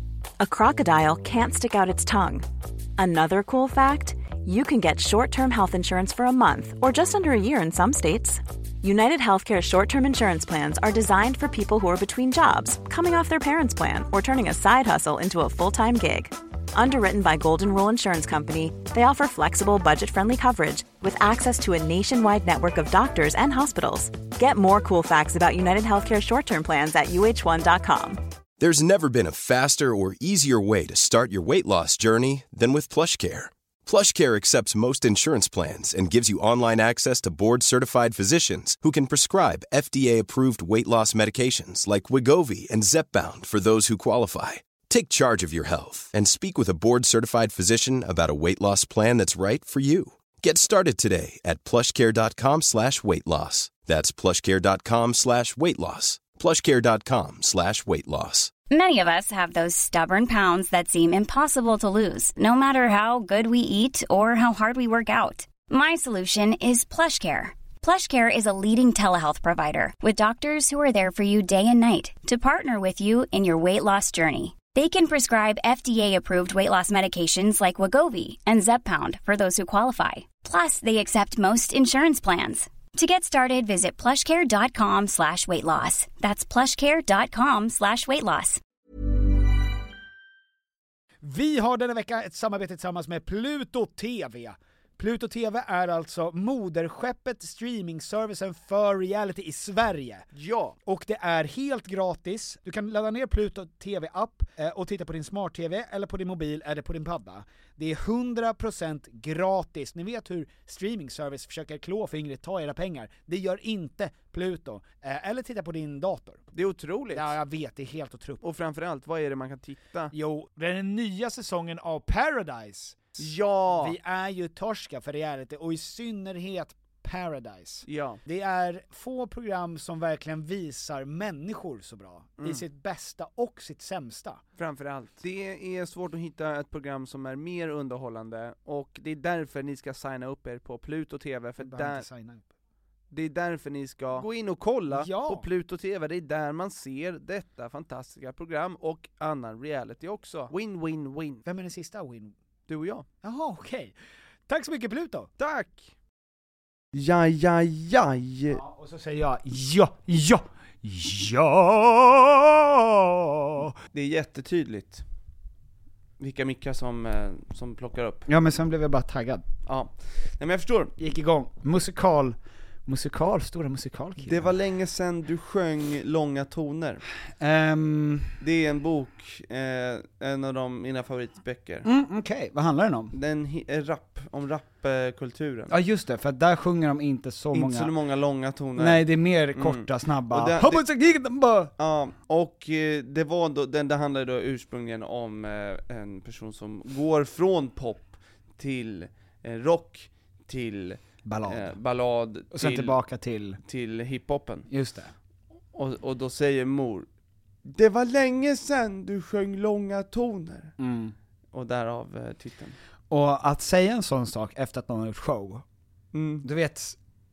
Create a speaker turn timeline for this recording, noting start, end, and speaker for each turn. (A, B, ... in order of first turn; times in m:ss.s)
0:00.4-0:02.5 A
0:03.0-0:28.2 A
0:28.6-0:58.5 B
0:58.7-1:28.6 C
1:31.2-1:40.3 D
1:40.3-1:40.8 E
1:40.8-1:56.5 D
1:56.5-1:57.4 E
1:57.1-1:58.4 D
1:58.4-2:00.1 E
2:00.1-2:14.4 D
2:03.2-2:04.0 E
2:07.8-2:08.2 E
2:14.6-2:22.0 E
2:21.6-2:22.5 D
2:23.1-2:31.4 E
2:24.9-2:25.5 D
2:31.4-2:32.3 D
2:32.7-2:33.1 E
2:33.2-2:33.9 D
2:34.5-2:35.3 D
2:35.4-2:35.9 E
2:36.9-2:38.6 E
2:38.5-2:43.8 D
2:43.9-2:45.0 E
2:46.2-2:48.2 E
2:48.3-2:49.4 D
2:49.7-2:50.9 E
2:51.0-2:54.5 D
2:54.2-2:57.0 E
2:57.4-2:58.4 D
2:58.4-3:01.8 E
3:01.8-3:03.1 D
3:03.1-3:05.8 E
3:05.7-3:07.9 D
3:07.5-3:10.8 E
3:08.8-3:11.7 D
3:11.8-3:23.0 E
3:21.2-3:21.8 D
3:22.5-3:23.6 D
3:23.6-3:24.7 E
3:24.7-3:25.1 D
3:25.7-3:27.1 E
3:27.6-3:30.7 E
3:30.8-3:31.2 D
3:31.5-3:32.8 E
3:33.1-3:35.6 D
3:36.1-3:36.5 E
3:36.4-3:37.0 D